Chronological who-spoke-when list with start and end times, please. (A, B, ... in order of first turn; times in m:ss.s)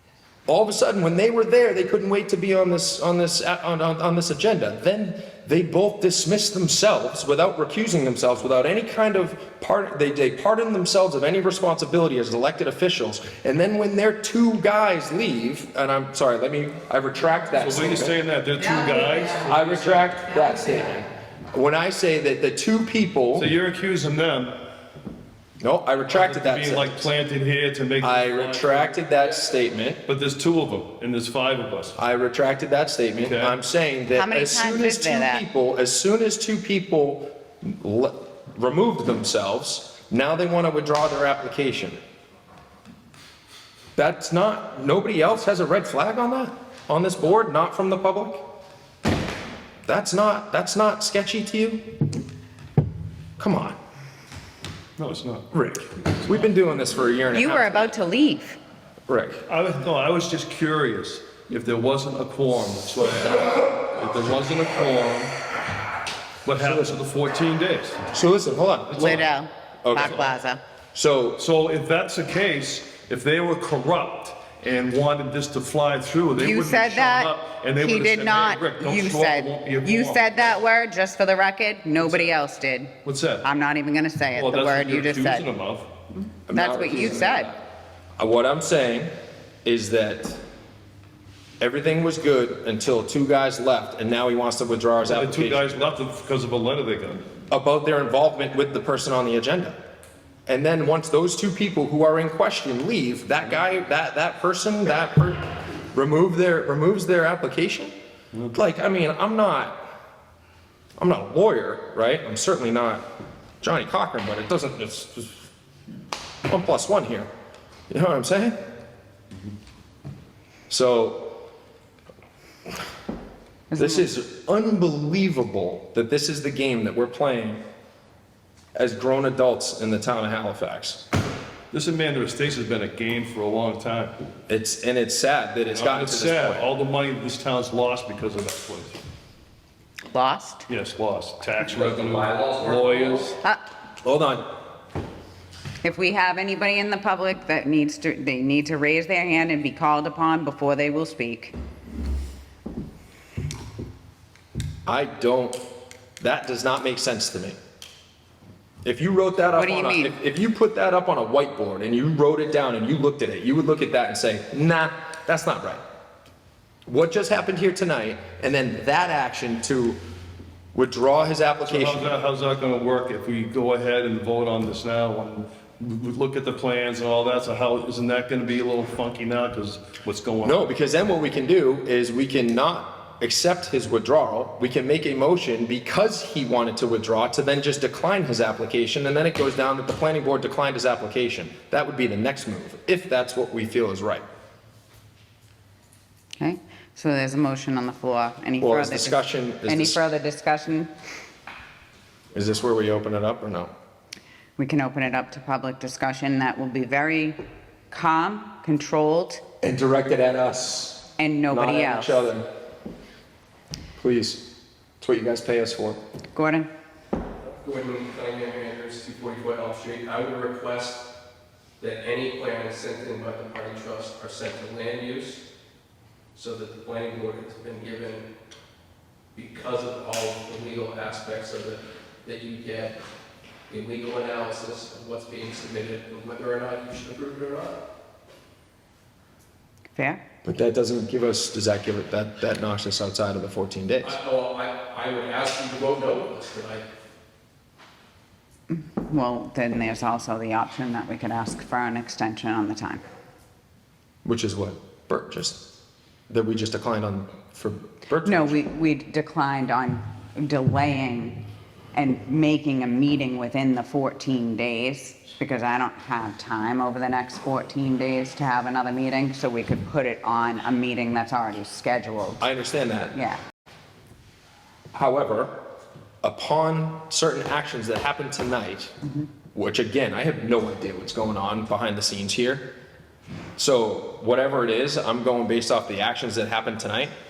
0:00.5-0:18.1 A
0:17.5-0:20.1 B
0:18.9-0:19.2 C
0:19.4-0:23.5 A
0:23.3-0:24.5 B
0:25.6-0:27.1 A
0:26.1-0:28.8 B
0:28.0-0:30.0 A
0:30.1-0:32.0 B
0:32.0-0:42.0 A
0:33.2-0:33.5 B
0:34.1-0:35.4 C
0:44.0-0:48.4 A
0:49.8-0:51.8 A
0:53.4-0:53.8 A
0:55.0-0:55.5 B
0:55.5-0:57.9 A
0:57.3-0:58.6 C
0:59.1-0:59.4 A
0:59.4-1:05.3 B
1:06.4-1:08.0 B
1:06.6-1:07.0 A
1:08.1-1:09.3 A
1:08.9-1:09.2 B
1:09.0-1:10.6 C
1:09.8-1:10.3 A
1:10.9-1:11.4 A
1:11.4-1:20.5 B
1:16.4-1:22.9 C
1:22.0-1:22.3 B
1:23.0-1:23.4 B
1:23.4-1:25.4 C
1:24.3-1:25.9 B
1:26.5-1:27.6 A
1:26.5-1:27.6 C
1:28.2-1:29.1 A
1:29.6-1:30.4 A
1:31.6-1:35.8 A
1:35.0-1:37.2 B
1:37.5-1:39.8 A
1:40.5-1:47.9 A
1:48.5-1:49.8 A
1:51.0-1:53.0 A
1:53.6-1:55.3 A
1:56.5-1:57.3 A
1:57.9-1:58.6 A
2:00.7-2:01.4 A
2:03.7-2:04.1 C
2:03.7-2:07.6 A
2:08.7-2:11.0 A
2:11.7-2:14.1 B
2:14.5-2:16.7 A
2:15.7-2:19.0 B
2:20.1-2:20.7 C
2:20.7-2:23.4 B
2:21.8-2:23.2 A
2:24.0-2:24.5 A
2:25.8-2:31.5 C
2:34.8-2:35.6 A
2:36.2-2:37.6 A
2:38.8-2:45.8 A
2:39.5-2:40.2 C
2:46.9-2:50.0 A
2:50.7-2:52.1 A
2:51.6-3:00.6 B
3:00.4-3:14.2 A
3:16.4-3:20.9 C
3:18.6-3:20.0 A
3:22.3-3:23.7 A
3:24.6-3:27.4 C
3:27.9-3:29.4 C
3:29.6-3:32.4 A
3:31.2-3:32.2 C
3:34.0-3:34.4 A
3:35.0-3:36.0 A
3:36.3-3:36.7 C
3:37.5-3:41.0 D
3:41.8-3:45.4 D
3:46.3-3:48.3 D
3:49.3-3:53.0 D
3:53.7-3:57.8 D
3:59.9-4:00.2 C
4:00.4-4:04.2 A
4:04.0-4:06.8 D
4:08.7-4:13.0 C
4:14.2-4:15.6 A
4:16.3-4:18.6 A
4:18.2-4:21.4 C
4:21.9-4:32.4 C
4:32.4-4:33.2 A
4:33.1-4:33.4 C
4:34.9-4:35.5 A
4:36.2-4:38.9 A
4:39.5-4:42.7 A
4:43.6-4:47.1 A